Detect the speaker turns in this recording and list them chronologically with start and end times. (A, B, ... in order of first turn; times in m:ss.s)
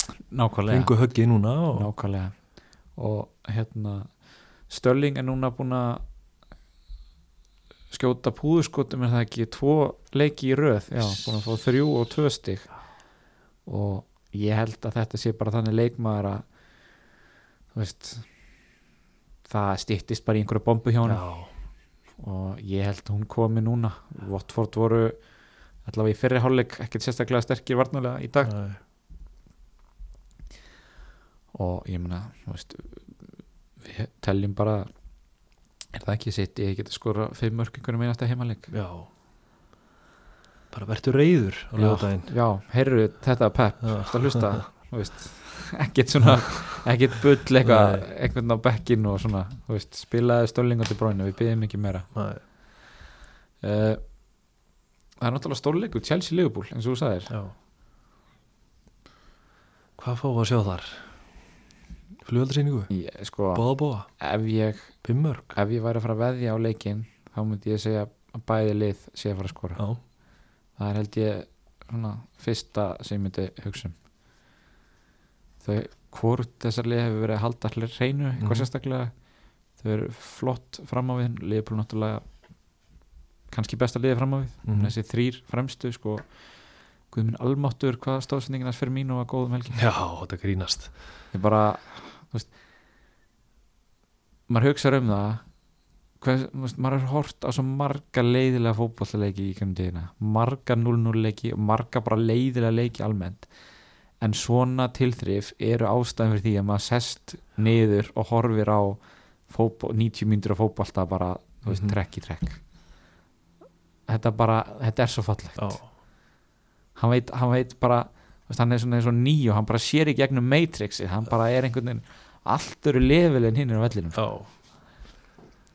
0:00.3-0:01.1 A
0:00.7-0:01.9 B
0:01.7-0:06.0 A
0:07.9-0:12.8 A
0:13.7-0:16.5 A
0:17.7-0:18.3 A
0:19.4-0:21.3 A
0:21.0-0:21.5 B
0:22.2-0:25.2 A
0:25.8-0:28.6 A
0:28.4-0:28.8 B
0:31.5-0:33.3 A
0:33.8-0:34.9 A
0:35.9-0:38.7 A
0:38.7-0:39.1 B
0:40.7-0:42.3 B
0:41.8-0:52.1 A
0:43.8-0:44.7 B
0:47.6-0:48.1 B
0:52.1-0:52.4 B
0:53.6-0:54.0 A
0:55.2-0:57.3 A
1:00.0-1:01.1 B
1:02.2-1:02.9 B
1:02.9-1:09.8 A
1:03.5-1:04.1 B
1:05.0-1:05.5 B
1:10.8-1:14.0 A
1:15.6-1:19.1 A
1:18.4-1:18.7 B
1:19.8-1:22.2 A
1:23.5-1:26.4 A
1:24.7-1:24.9 B
1:27.1-1:29.8 A
1:29.7-1:30.9 B
1:31.3-1:32.5 A
1:34.5-1:35.4 A
1:36.2-1:43.5 A
1:44.2-1:52.6 A
1:51.7-1:52.0 B
1:54.1-1:55.9 A
1:55.6-1:55.9 B
1:57.0-2:04.2 A
2:04.1-2:04.5 B